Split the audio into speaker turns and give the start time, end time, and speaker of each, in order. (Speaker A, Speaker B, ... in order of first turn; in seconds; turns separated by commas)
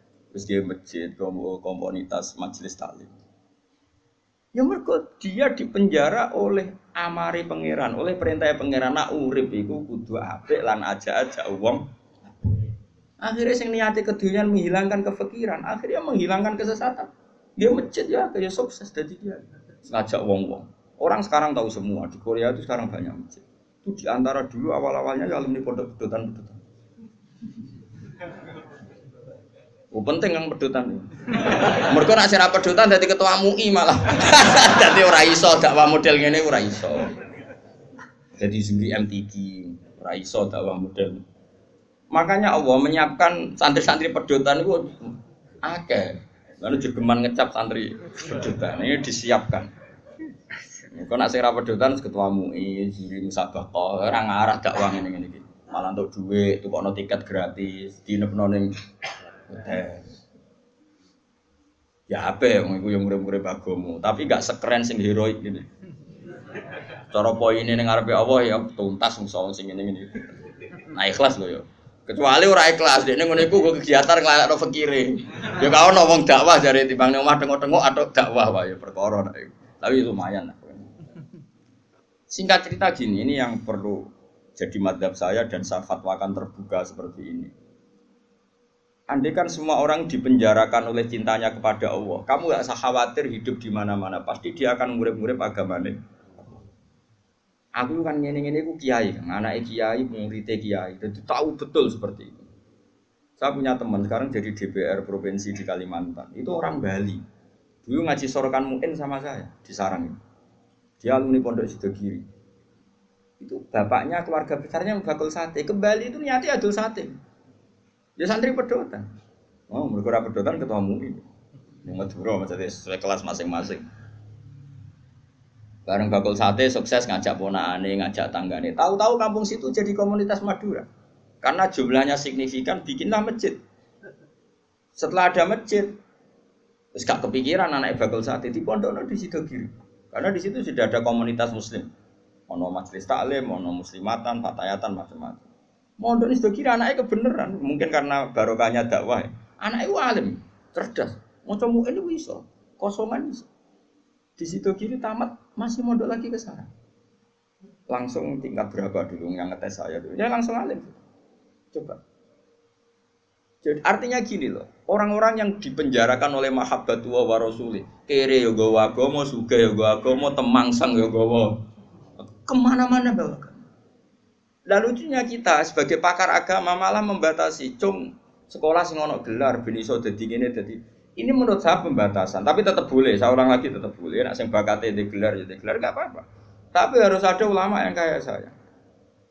Speaker A: 0.3-3.1, Speaker A: 4.5-12.6, Speaker A: 13.2-26.6, Speaker A: 29.9-37.2, Speaker A: 38.4-41.2, Speaker A: 42.1-49.7, Speaker A: 50.9-58.7, Speaker A: 59.5-60.1, Speaker A: 62.1-65.7, Speaker A: 67.1-80.9, Speaker A: 82.3-87.5, Speaker A: 89.1-96.0, Speaker A: 97.8-102.5, Speaker A: 103.4-107.2, Speaker A: 107.8-110.2, Speaker A: 111.0-112.2, Speaker A: 113.4-117.2, Speaker A: 118.2-119.0, Speaker A: 119.7-121.2, Speaker A: 121.8-123.8, Speaker A: 125.8-130.9, Speaker A: 131.4-133.6, Speaker A: 134.9-136.0, Speaker A: 136.9-141.9, Speaker A: 142.5-145.5, Speaker A: 146.0-153.5, Speaker A: 154.4-156.7, Speaker A: 157.9-161.0, Speaker A: 161.7-162.0, Speaker A: 163.6-171.6, Speaker A: 172.2-173.6, Speaker A: 174.7-188.5